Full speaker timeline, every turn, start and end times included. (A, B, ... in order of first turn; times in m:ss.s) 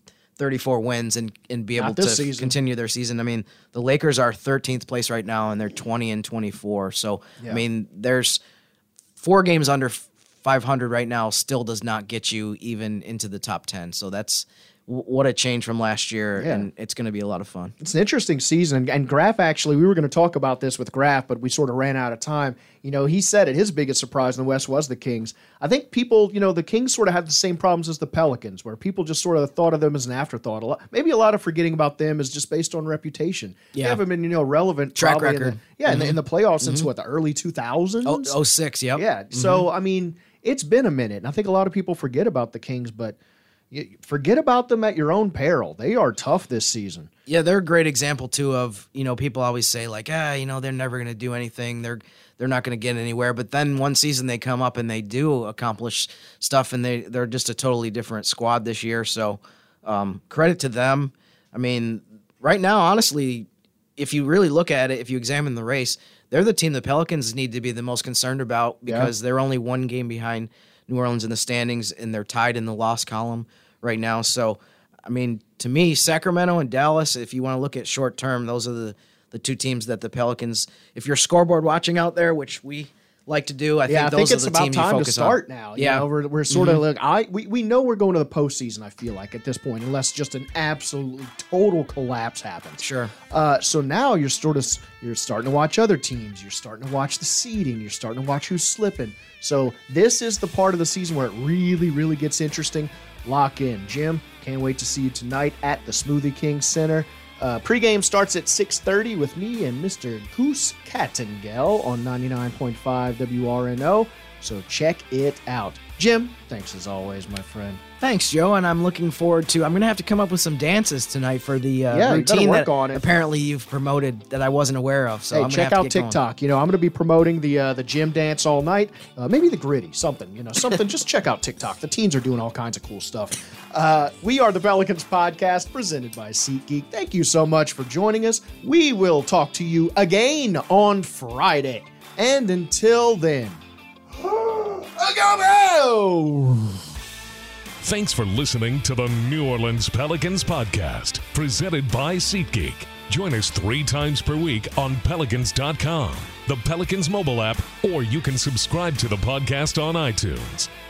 0:00.4-0:08.4 A
0:01.8-0:02.6 B
0:09.2-0:17.7 A
0:16.4-0:16.6 B
0:17.8-0:38.3 B
0:33.7-0:34.0 A
0:35.0-0:36.9 A
0:38.0-0:39.7 A
0:39.0-0:43.2 B
0:43.7-0:47.1 B
0:47.3-1:26.8 A
1:23.9-1:57.8 B
1:32.8-1:33.1 A
1:58.0-2:06.2 A
2:01.9-2:03.0 B
2:05.3-2:23.6 B
2:24.2-2:26.8 B
2:27.8-2:40.7 C